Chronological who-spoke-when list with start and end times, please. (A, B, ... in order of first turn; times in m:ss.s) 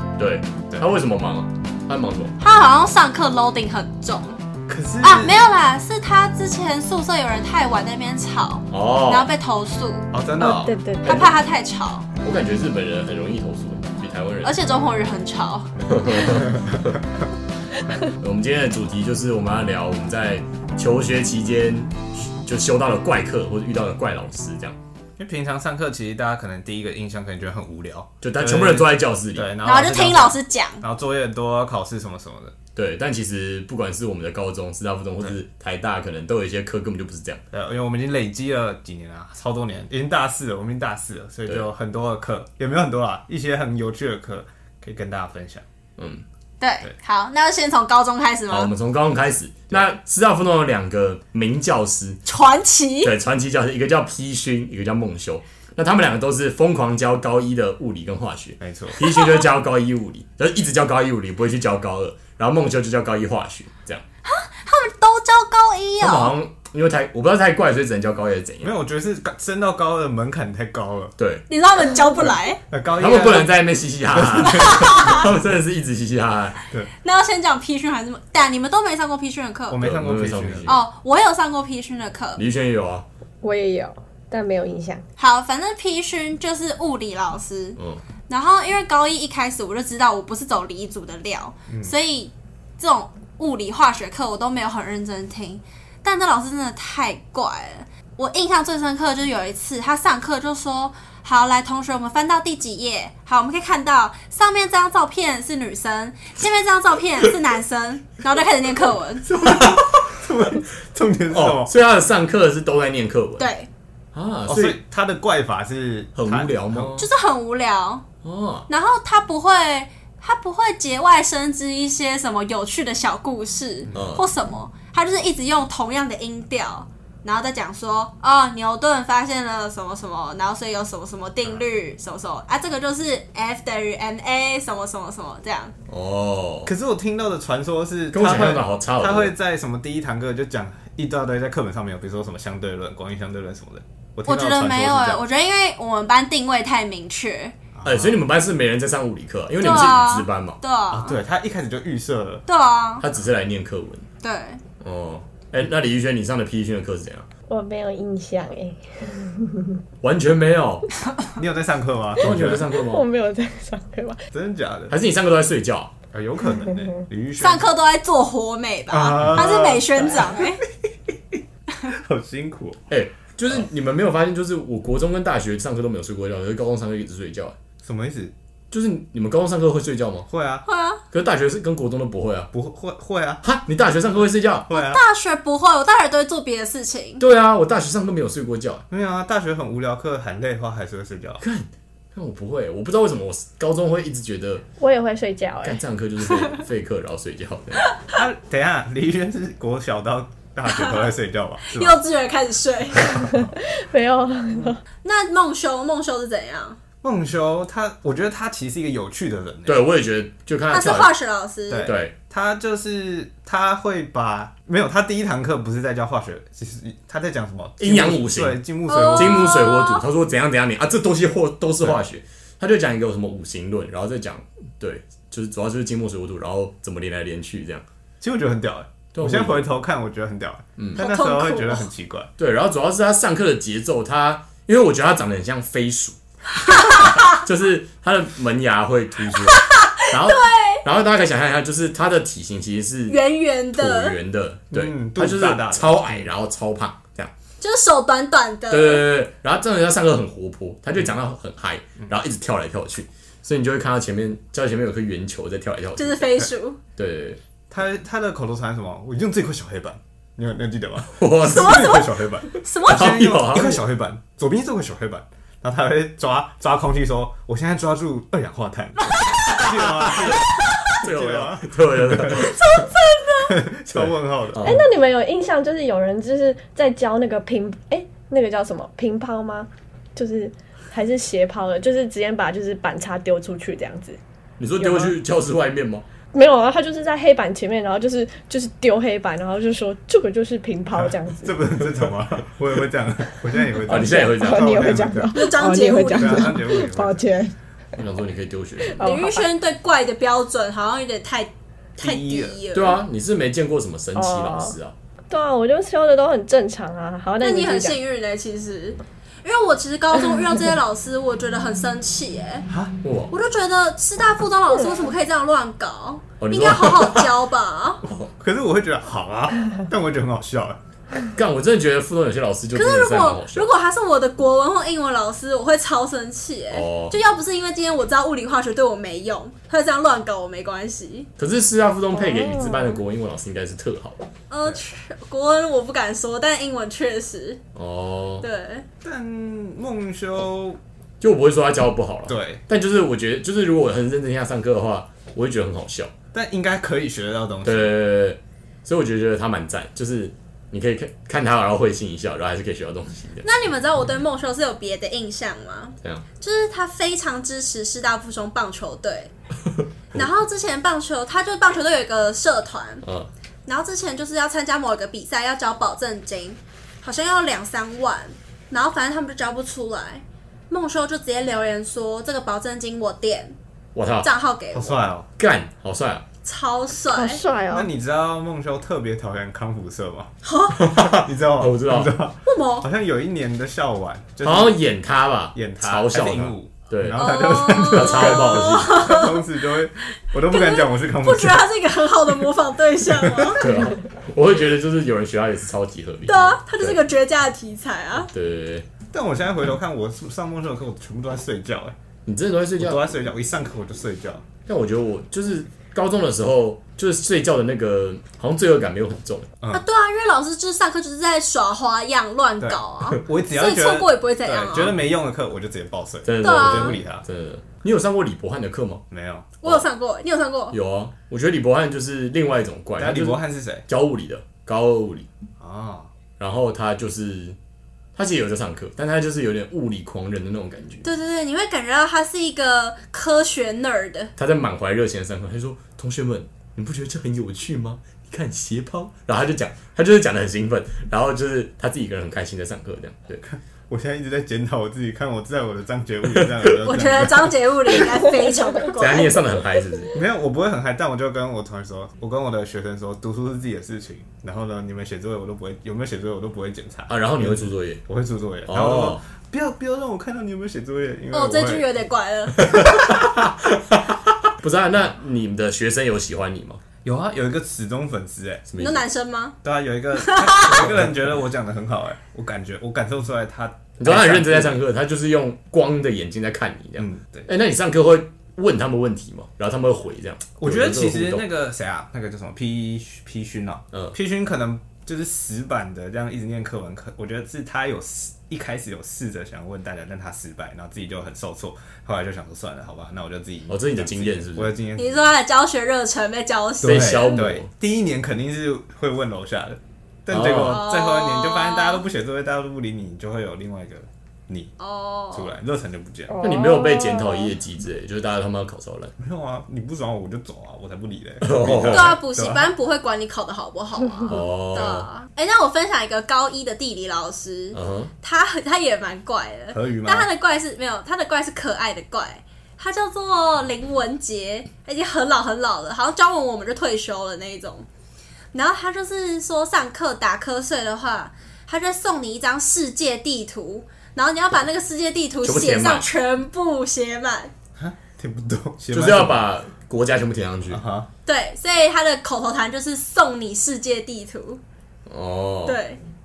0:00.2-0:02.4 A
0:00.7-0:01.0 B
0:02.4-0:04.4 C
0:04.7-0:05.4 B
0:05.0-0:10.1 C
0:08.7-0:09.3 A
0:10.1-0:10.8 B
0:10.4-0:11.3 D
0:11.0-0:12.1 C
0:12.2-0:14.5 A
0:14.4-0:15.7 C
0:15.8-0:17.0 A
0:18.2-0:24.8 A
0:25.2-0:32.5 B
0:28.2-0:29.5 A
0:29.6-0:30.8 C
0:32.8-0:37.4 A
0:37.5-0:45.6 B
0:46.0-0:46.2 A
0:46.6-0:48.7 C
0:48.5-0:52.2 A
0:52.2-0:53.1 C
0:53.0-1:04.0 A
0:58.6-0:59.0 B
0:59.0-0:59.4 C
1:04.2-1:06.4 C
1:06.0-1:08.7 A
1:08.6-1:11.1 B
1:11.2-1:11.4 A
1:11.5-1:12.6 C
1:12.7-1:13.6 B
1:13.0-1:16.6 A
1:14.1-1:14.9 B
1:14.5-1:15.3 C
1:17.0-1:19.8 C
1:19.7-1:20.7 B
1:19.8-1:20.8 A
1:20.7-1:22.4 C
1:22.4-1:23.0 A
1:23.4-1:25.0 D
1:25.2-1:49.3 C
1:27.8-1:28.0 A
1:31.7-1:31.9 B
1:49.2-1:51.7 B
1:49.4-1:50.1 A
1:51.3-1:53.5 A
1:53.4-1:53.7 C
1:54.2-1:54.8 A
1:54.5-1:57.0 B
1:56.2-1:57.1 A
1:57.0-1:58.0 C
1:58.2-1:58.7 A
1:58.7-2:15.7 C
2:03.9-2:04.2 A
2:15.9-2:16.7 A
2:16.7-2:25.2 B
2:18.1-2:19.3 A
2:24.3-2:27.6 C
2:27.7-2:28.2 B
2:27.8-2:30.6 A
2:29.6-2:31.2 C
2:30.9-2:32.4 B
2:32.5-2:33.0 C
2:33.0-2:34.1 A
2:34.2-2:34.6 C
2:34.8-2:37.3 A
2:37.5-2:39.8 D
2:40.0-2:40.9 A
2:41.4-2:42.8 B
2:42.2-2:43.1 A
2:42.4-2:44.2 D
2:44.3-2:45.0 B
2:44.9-2:45.9 A
2:46.1-2:47.7 B
2:47.4-2:50.6 C
2:48.9-2:52.8 B
2:52.9-2:57.6 A
2:57.8-2:58.3 B
2:58.7-3:00.3 A
3:00.3-3:00.6 B
3:00.6-3:01.0 C
3:01.1-3:02.5 A
3:02.5-3:03.4 B
3:03.4-3:04.7 A
3:04.7-3:05.0 B
3:04.7-3:07.2 C
3:07.2-3:08.8 A
3:08.9-3:11.4 B
3:11.4-3:14.6 A
3:14.8-3:15.8 D
3:15.6-3:17.9 A
3:17.9-3:18.2 C
3:18.1-3:22.0 B
3:20.7-3:21.1 C
3:21.7-3:23.2 C
3:23.0-3:24.8 D
3:25.0-3:26.8 C
3:27.0-3:29.8 B
3:29.7-3:31.1 A
3:30.7-3:31.9 C
3:31.7-3:39.5 B
3:31.8-3:32.1 A
3:37.8-3:38.6 A
3:38.9-3:40.0 C
3:39.2-3:47.8 A
3:48.2-3:52.3 B
3:49.1-3:49.6 A
3:51.0-3:51.9 C
3:52.4-3:56.2 A
3:56.6-3:57.4 C
3:57.0-4:03.2 A
3:59.3-4:00.8 C
4:03.1-4:04.2 C
4:03.8-4:07.3 A
4:04.7-4:06.3 B
4:07.6-4:09.0 C
4:08.7-4:16.2 A
4:16.0-4:16.8 C
4:17.0-4:17.4 A
4:17.7-4:32.5 B
4:21.2-4:22.0 A
4:21.5-4:23.3 C
4:22.9-4:23.8 A
4:29.1-4:29.6 C
4:29.5-4:32.6 A
4:32.2-4:33.6 C
4:33.4-4:34.8 B
4:33.9-4:34.9 A
4:34.6-4:44.2 D
4:44.6-4:46.0 A
4:44.8-4:45.2 D
4:46.3-4:51.6 D
4:51.4-4:57.3 B
4:53.7-4:57.5 D
4:53.8-4:55.0 A
4:55.4-4:56.6 C
4:58.0-4:59.0 A
4:58.8-4:59.5 D
4:59.0-5:03.0 C
5:02.0-5:02.6 B
5:02.7-5:04.9 A
5:04.2-5:04.8 D
5:05.3-5:08.0 D
5:07.4-5:12.7 C
5:12.7-5:13.0 B
5:13.0-5:13.3 A
5:13.3-5:18.0 C
5:16.4-5:17.3 A
5:18.0-5:18.3 A
5:18.4-5:20.8 B
5:21.4-5:23.7 A
5:22.7-5:31.3 C
5:26.7-5:27.2 A
5:31.4-5:34.2 A
5:32.1-5:33.0 D
5:34.5-5:37.6 C
5:37.8-5:38.4 A
5:38.4-5:38.9 C
5:39.0-5:40.8 B
5:41.2-5:46.1 A
5:42.3-5:42.6 B
5:46.3-5:48.0 B
5:47.6-5:53.4 A
5:53.4-5:59.3 C
6:00.1-6:03.0 C
6:03.0-6:03.3 A
6:03.7-6:13.6 C
6:14.0-6:14.3 A
6:14.2-6:15.1 C
6:14.7-6:15.3 B
6:15.4-6:16.2 A
6:16.4-6:17.4 C
6:17.1-6:17.9 D
6:17.7-6:20.3 B
6:20.4-6:20.8 C
6:20.8-6:22.1 A
6:21.1-6:24.8 B
6:22.4-6:22.9 C
6:24.4-6:28.9 A
6:25.5-6:31.7 B
6:27.1-6:29.4 C
6:30.4-6:33.6 C
6:33.2-6:33.6 B
6:33.6-6:37.0 A
6:36.3-6:38.3 C
6:38.3-6:38.9 A
6:39.1-6:42.0 B
6:42.3-6:43.1 A
6:42.8-6:44.4 B
6:44.7-6:49.5 A
6:49.7-6:55.0 C
6:52.6-6:57.2 B
6:56.3-6:59.0 A
6:56.4-6:57.0 C
6:59.1-6:59.5 B
6:59.6-7:00.8 C
7:00.7-7:05.3 A
7:03.0-7:03.9 B
7:05.6-7:06.1 B
7:06.4-7:07.6 A
7:08.2-7:11.1 A
7:11.0-7:14.3 C
7:14.4-7:23.4 A
7:23.4-7:27.6 B
7:26.8-7:29.4 C
7:29.0-7:30.1 A
7:30.1-7:41.9 B
7:37.1-7:38.0 A
7:38.7-7:39.2 A
7:41.3-7:42.8 C
7:42.6-7:46.8 A
7:47.0-7:48.7 B
7:48.7-7:49.0 A
7:48.8-7:49.6 C
7:49.6-7:54.8 B
7:50.2-7:50.8 C
7:54.0-8:01.4 A
7:57.0-7:57.5 B
8:00.6-8:15.3 B
8:13.7-8:14.8 A
8:15.0-8:17.5 C
8:16.8-8:17.7 A
8:16.8-8:24.7 B
8:20.3-8:20.8 A
8:20.4-8:22.0 C
8:24.8-8:25.6 C
8:25.3-8:26.4 B
8:26.3-8:27.5 D
8:26.4-8:29.1 A
8:29.2-8:32.7 B
8:31.4-8:32.2 A
8:31.9-8:47.9 C
8:34.3-8:35.1 A
8:37.7-8:38.1 A
8:39.7-8:40.3 B
8:48.5-8:57.5 C
8:55.4-8:56.1 A
8:57.8-8:59.4 B
8:58.9-9:00.8 A
9:00.7-9:01.1 B
9:01.3-9:04.6 C
9:05.1-9:05.8 A
9:05.7-9:06.0 C